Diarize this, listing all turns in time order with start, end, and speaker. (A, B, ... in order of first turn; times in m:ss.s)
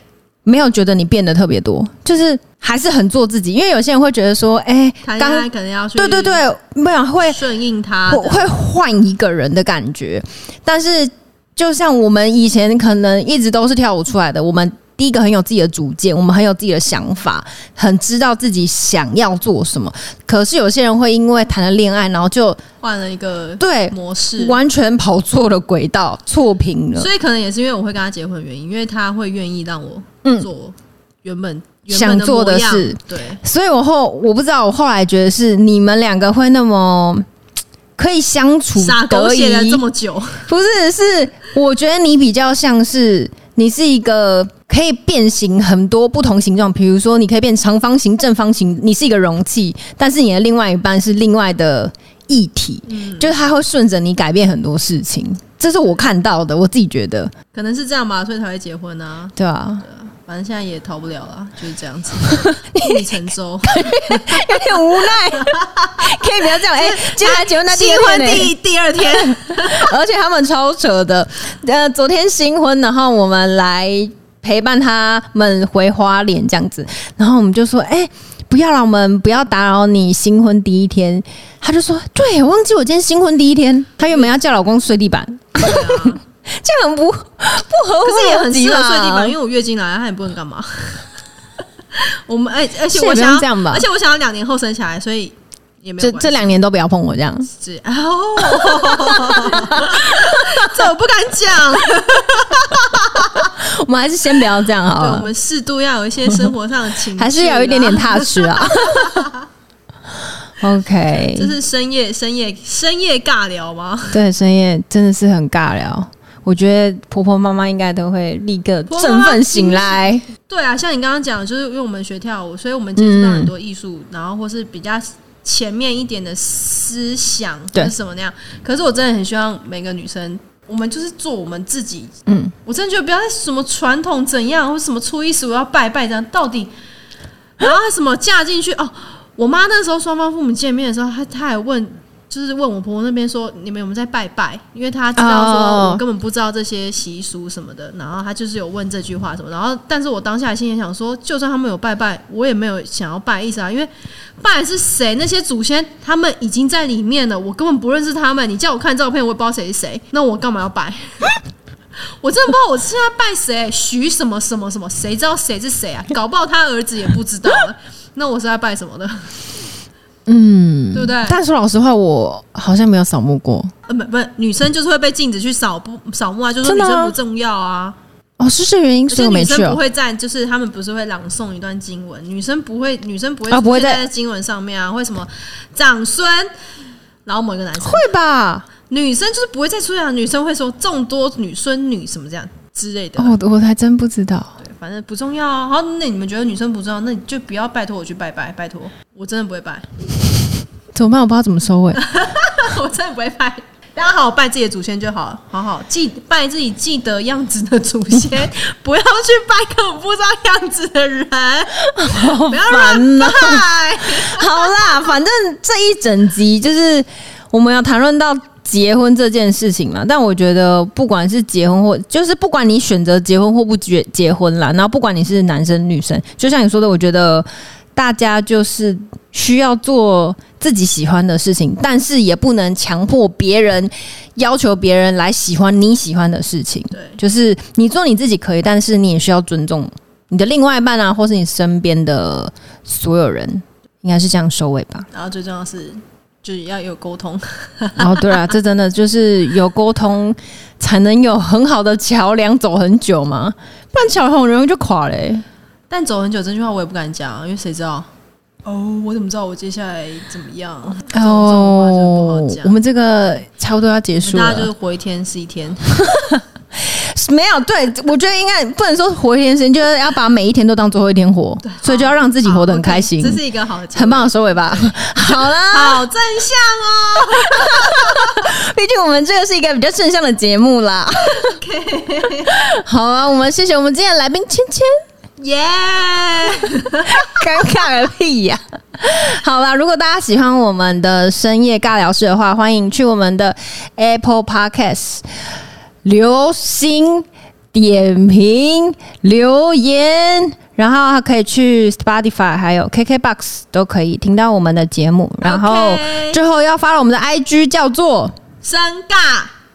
0:00.4-0:07.4 A
0:05.0-0:06.4 B
0:07.3-0:08.5 B
0:08.1-0:22.6 A
0:22.8-0:24.6 B
0:23.6-0:27.1 A
0:27.0-0:33.4 B
0:31.9-0:37.3 A
0:38.0-0:39.8 A
0:38.8-0:40.5 B
0:40.5-0:57.3 A
0:52.9-0:53.3 B
0:57.5-1:09.9 B
0:59.4-0:59.8 A
1:02.3-1:29.4 A
1:25.6-1:26.2 B
1:28.0-1:31.1 B
1:32.0-1:36.6 B
1:32.9-1:33.9 A
1:36.0-1:37.5 A
1:37.5-1:43.5 B
1:38.4-1:40.7 A
1:43.2-1:45.3 A
1:45.0-1:49.4 B
1:47.2-1:49.3 A
1:50.6-1:51.5 A
1:51.3-1:54.2 B
1:54.1-2:00.3 A
1:58.9-2:16.7 B
2:03.0-2:03.5 A
2:12.3-2:12.5 A
2:17.6-2:41.4 B
2:25.2-2:26.0 A
2:42.2-2:49.4 B
2:50.3-2:53.7 A
2:50.9-2:51.4 B
2:53.9-2:58.0 B
2:56.6-2:57.2 A
2:58.4-2:59.8 A
2:59.1-3:06.5 B
3:03.5-3:04.0 A
3:07.3-3:08.1 B
3:07.8-3:08.7 A
3:08.9-3:13.4 B
3:13.2-3:14.6 A
3:14.6-3:19.9 B
3:20.9-3:22.0 A
3:22.0-3:35.1 B
3:31.9-4:05.1 A
3:56.9-3:57.2 B
4:05.1-4:08.2 B
4:08.0-4:15.4 A
4:15.9-4:18.1 B
4:18.6-4:22.7 B
4:21.1-4:24.7 A
4:24.2-4:25.9 B
4:26.0-4:33.4 A
4:31.6-4:38.5 B
4:34.0-4:36.0 A
4:37.5-4:41.6 A
4:41.2-4:42.6 B
4:42.5-4:44.9 A
4:45.4-4:47.4 B
4:47.1-4:55.2 A
4:56.0-5:08.4 A
5:05.4-5:06.4 B
5:08.6-5:09.5 B